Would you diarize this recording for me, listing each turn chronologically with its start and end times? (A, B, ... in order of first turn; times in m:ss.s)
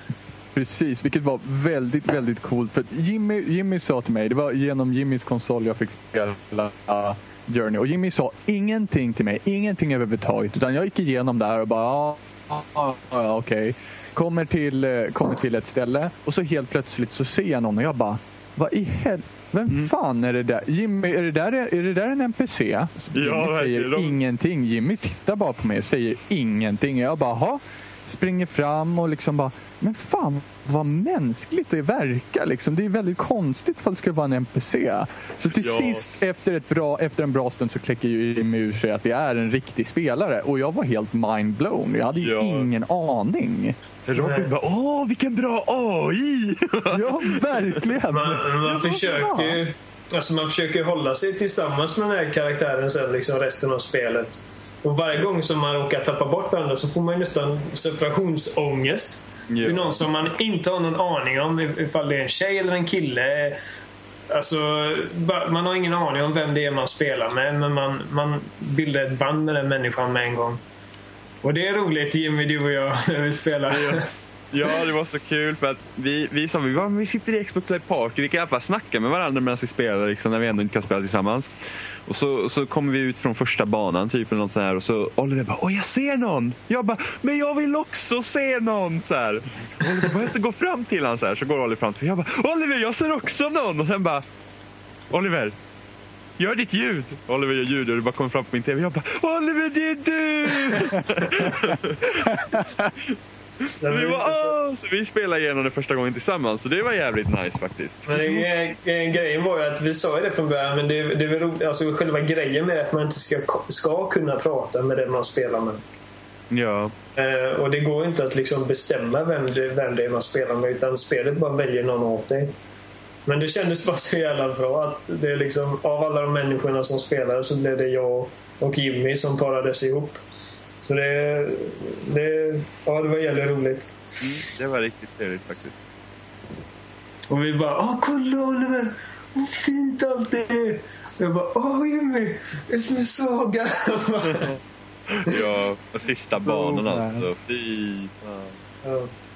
0:00.6-0:43.8 A
0:23.1-0:24.2 B
0:35.5-0:36.1 B
0:42.2-0:42.7 B
0:44.0-0:47.9 B
0:44.2-0:44.5 C
0:46.9-0:49.6 A
0:48.1-1:03.6 C
0:59.5-1:00.0 B
1:04.3-1:10.6 C
1:11.4-1:14.1 C
1:13.7-1:21.5 B
1:22.1-1:34.2 B
1:35.1-1:35.6 B
1:36.4-1:48.5 B
1:42.3-1:42.7 A
1:43.8-1:44.6 C
1:48.1-1:55.8 C
1:56.5-1:56.9 B
1:57.2-2:02.6 C
2:03.3-2:10.2 C
2:10.8-2:13.9 C
2:14.2-2:15.8 B
2:17.3-2:24.6 C
2:24.3-2:28.6 B
2:26.4-2:27.3 A
2:28.8-2:29.1 C